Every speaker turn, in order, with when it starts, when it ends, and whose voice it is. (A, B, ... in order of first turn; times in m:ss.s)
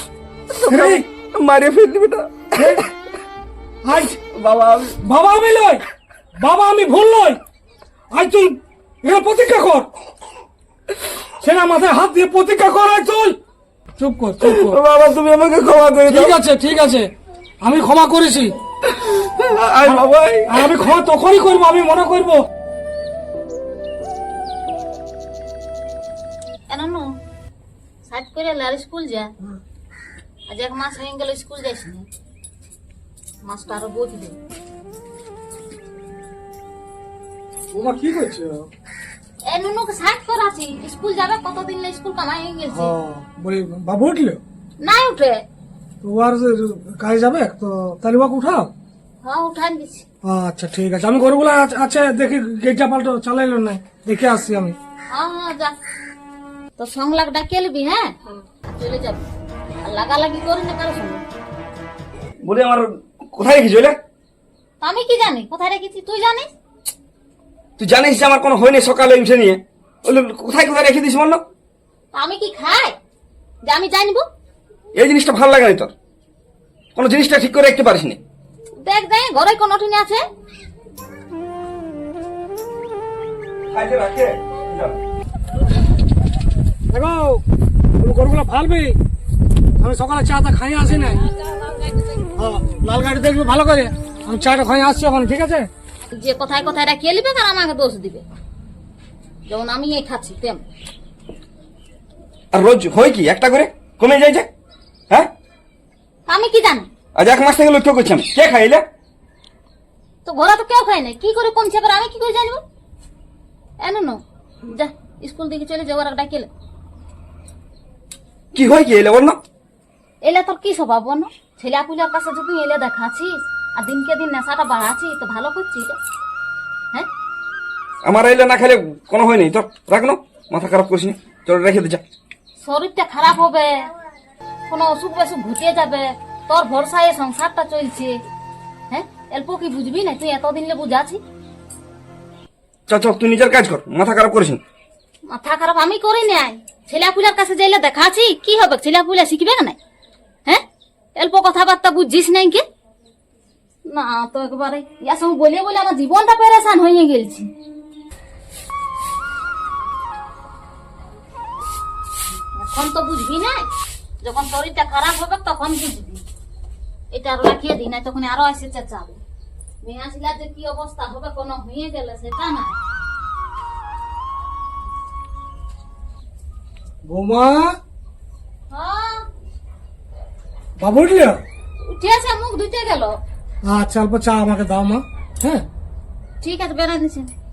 0:00.5-0:02.8 A
0:00.7-0:01.0 B
0:02.6-0:02.8 B
0:03.8-0:04.2 B
0:04.3-0:05.0 A
0:05.0-0:05.8 B
0:06.4-0:07.4 B
0:08.1-0:09.9 B
0:11.4-0:13.4 B
0:14.0-0:14.8 B
0:14.4-0:16.4 A
0:16.0-0:17.1 B
0:17.6-0:18.5 B
0:18.8-0:20.7 A
0:19.8-0:22.4 B
0:26.7-0:27.1 C
0:28.1-0:29.3 C
0:30.5-0:32.0 C
0:33.4-0:34.4 C
0:37.7-0:38.7 B
0:39.5-0:42.9 C
0:42.7-0:44.4 B
0:44.8-0:45.4 C
0:46.0-0:48.7 B
0:49.2-0:50.0 C
0:50.2-0:54.8 B
0:55.1-0:55.8 C
0:56.8-0:59.2 C
0:59.8-1:01.2 C
1:02.4-1:04.0 A
1:04.8-1:06.5 C
1:07.8-1:11.4 A
1:12.1-1:13.0 C
1:13.6-1:14.2 C
1:14.9-1:15.9 A
1:16.9-1:18.2 A
1:18.8-1:20.2 C
1:23.7-1:24.9 A
1:26.9-1:27.4 B
1:28.0-1:29.0 B
1:29.8-1:31.2 B
1:32.4-1:35.7 B
1:36.1-1:38.2 C
1:39.5-1:40.6 C
1:42.5-1:44.5 A
1:46.3-1:46.9 C
1:47.1-1:48.8 A
1:50.2-1:52.6 C
1:53.8-1:56.5 C
1:58.5-1:59.4 A
2:00.2-2:06.0 C
2:08.0-2:12.0 A
2:12.6-2:13.9 C
2:14.7-2:18.2 C
2:18.9-2:21.2 C
2:22.9-2:24.6 A
2:25.3-2:29.8 C
2:31.2-2:32.6 C
2:33.9-2:37.5 C
2:42.6-2:43.7 C
2:44.2-2:46.2 C
2:47.1-2:49.2 C
2:49.8-2:52.8 C
2:57.0-2:57.7 B
2:58.7-2:59.3 C
3:00.8-3:01.4 B
3:01.8-3:03.2 C
3:03.6-3:05.6 B
3:06.4-3:07.3 C